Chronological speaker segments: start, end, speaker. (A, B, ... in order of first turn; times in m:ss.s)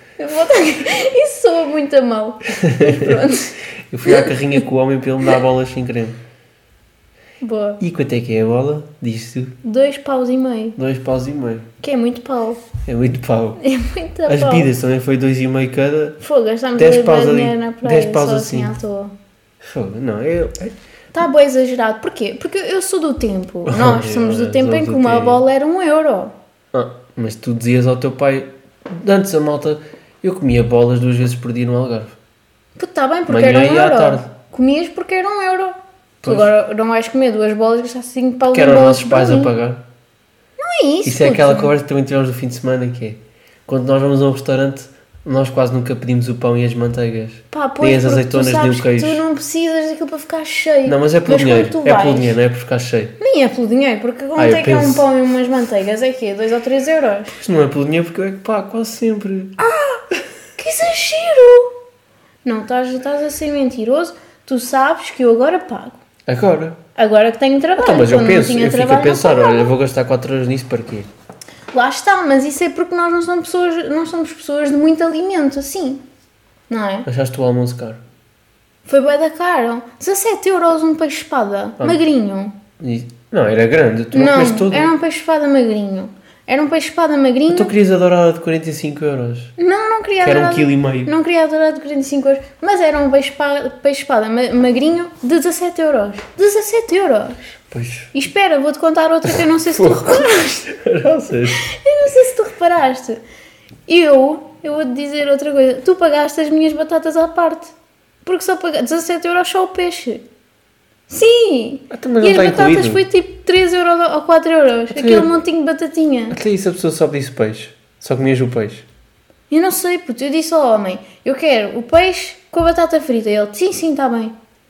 0:00.2-0:04.3 A
0:02.5-0:03.2 B
0:03.9-0:06.2 B
0:07.4-0:07.8 A
0:07.8-0:09.6 B
0:09.6-0:10.8 A
0:10.8-0:11.7 B
0:11.8-0:12.6 A
0:12.8-0:13.6 B
0:13.6-0:14.7 A
0:14.3-0:16.2 B
0:16.2-0:19.1 A
0:16.8-0:18.7 B
0:19.6-0:20.8 B
0:21.1-0:26.3 A
0:23.7-0:25.4 B
0:26.7-0:32.2 B
0:32.8-0:39.5 A
0:33.3-0:34.3 B
0:36.2-0:36.5 B
0:38.5-0:39.8 B
0:40.6-0:41.7 A
0:41.0-0:49.2 B
0:47.5-0:52.4 A
0:50.9-0:53.2 B
0:53.2-0:57.4 A
0:54.4-0:55.0 B
0:57.4-0:59.6 B
0:59.6-1:00.0 A
1:00.6-1:01.7 A
1:02.4-1:06.0 A
1:06.3-1:06.8 B
1:07.0-1:09.7 A
1:07.8-1:11.1 B
1:11.7-1:16.0 A
1:16.7-1:17.1 A
1:17.1-1:18.0 B
1:18.9-1:22.5 A
1:22.8-1:24.9 B
1:24.1-1:27.7 A
1:27.5-1:29.5 B
1:29.6-1:37.6 A
1:30.2-1:31.1 B
1:37.7-1:38.1 B
1:38.1-1:40.7 A
1:39.4-1:41.7 B
1:41.5-1:43.2 A
1:43.9-1:47.7 A
1:48.2-1:50.2 A
1:51.1-1:56.4 A
1:51.9-1:53.0 B
1:54.9-1:55.3 B
1:56.3-1:58.8 B
1:59.5-2:04.3 A